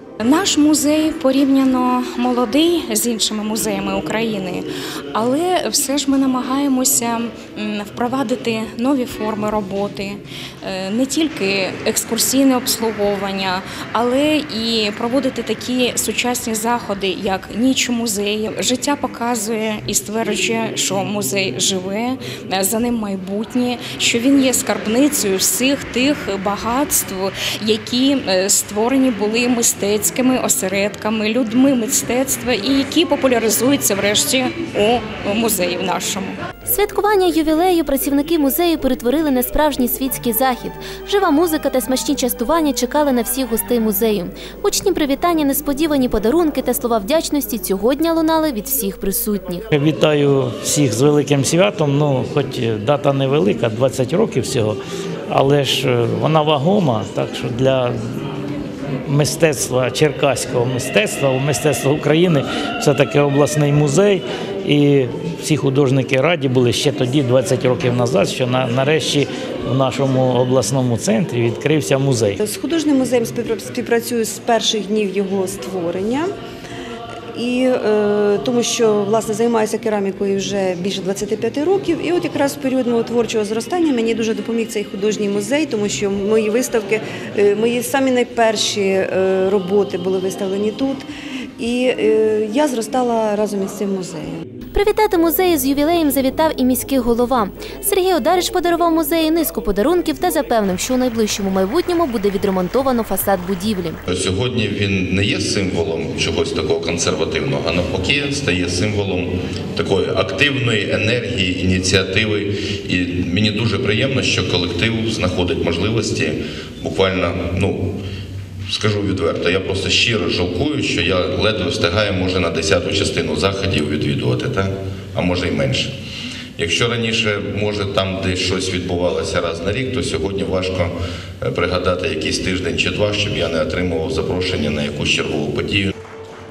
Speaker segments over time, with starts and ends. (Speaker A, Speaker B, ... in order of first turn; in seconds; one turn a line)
Speaker A: 0.2-36.3
Speaker B: 36.7-49.6
Speaker C: 49.7-57.9
Speaker C: 59.0-72.4
Speaker D: 72.4-76.3
Speaker D: 77.3-91.0
Speaker D: 91.6-94.3
Speaker B: 94.7-104.0
Speaker E: 104.1-117.9
Speaker E: 118.7-125.9
Speaker E: 126.6-135.9